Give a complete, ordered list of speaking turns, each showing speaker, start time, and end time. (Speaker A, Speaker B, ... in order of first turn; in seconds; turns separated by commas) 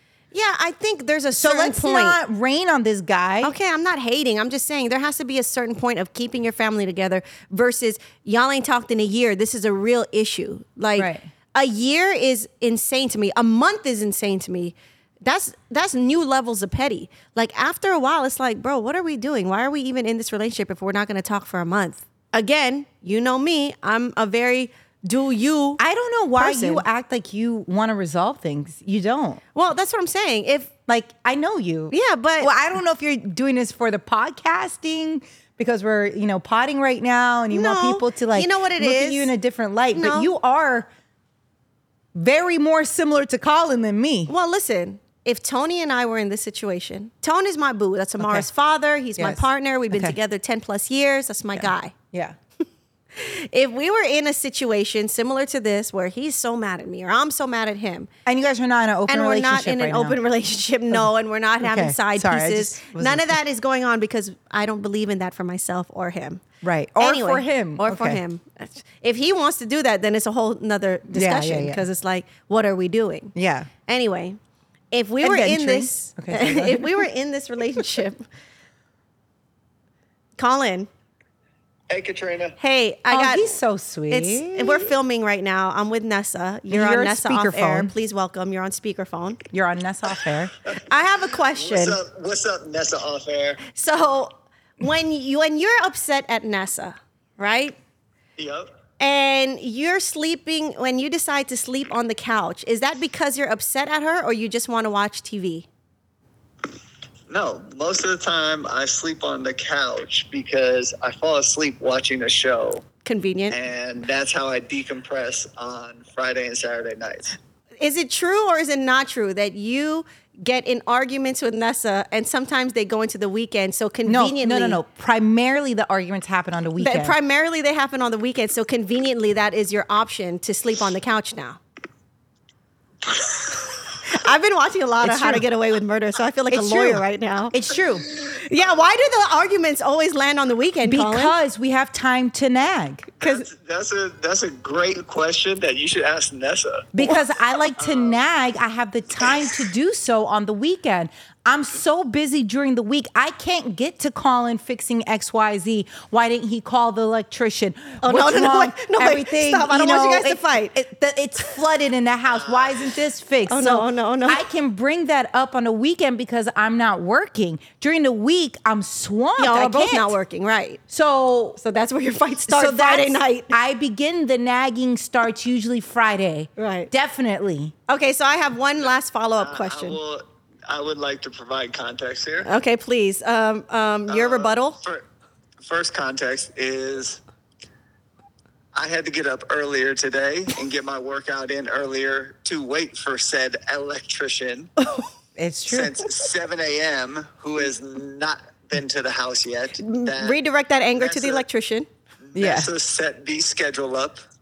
Speaker A: 0.3-2.2, Speaker B: 1.3-3.5, Speaker A: 3.4-25.8, Speaker B: 10.9-11.2, Speaker B: 25.8-29.4, Speaker A: 26.4-26.8, Speaker A: 29.5-30.7, Speaker B: 30.9-40.9, Speaker A: 31.9-32.5, Speaker A: 37.5-39.3, Speaker A: 39.9-40.3, Speaker B: 42.1-44.3, Speaker A: 44.3-51.9, Speaker B: 48.2-48.5, Speaker B: 51.6-52.4, Speaker A: 53.1-58.1, Speaker B: 58.2-60.2, Speaker A: 59.1-66.4, Speaker B: 61.6-63.4, Speaker B: 66.6-68.2, Speaker A: 67.0-73.3, Speaker B: 71.1-71.8, Speaker B: 73.3-73.7, Speaker A: 73.9-74.4, Speaker A: 74.9-78.2, Speaker B: 75.2-77.0, Speaker A: 80.4-80.9, Speaker C: 81.9-82.5, Speaker A: 82.6-83.5, Speaker B: 83.1-84.9, Speaker A: 84.1-89.4, Speaker B: 86.7-87.9, Speaker B: 89.5-90.5, Speaker A: 90.8-92.0, Speaker C: 91.5-93.6, Speaker A: 93.7-97.8, Speaker C: 98.4-98.7, Speaker A: 99.0-105.7, Speaker C: 107.3-112.8, Speaker A: 113.0-113.6, Speaker C: 113.5-117.3, Speaker A: 117.8-124.8, Speaker B: 124.0-127.1, Speaker A: 126.8-131.6, Speaker A: 134.0-137.6, Speaker B: 135.0-135.4, Speaker B: 136.5-138.0, Speaker A: 138.1-141.3, Speaker B: 140.8-143.1, Speaker C: 143.2-146.9, Speaker A: 143.2-143.5, Speaker B: 146.9-170.1, Speaker C: 147.8-148.2, Speaker A: 158.0-160.7, Speaker C: 162.4-162.8, Speaker A: 163.5-164.4, Speaker A: 169.4-170.8, Speaker B: 170.9-171.6, Speaker A: 171.6-173.5, Speaker B: 172.5-177.7, Speaker A: 176.6-176.9, Speaker A: 177.9-180.0, Speaker C: 179.4-182.5, Speaker A: 182.4-184.8, Speaker C: 184.1-185.0, Speaker C: 185.6-187.2, Speaker C: 188.7-194.7, Speaker B: 195.4-195.9, Speaker C: 195.7-200.4, Speaker A: 199.8-201.9, Speaker C: 201.0-201.4, Speaker C: 202.3-204.2, Speaker B: 202.3-202.7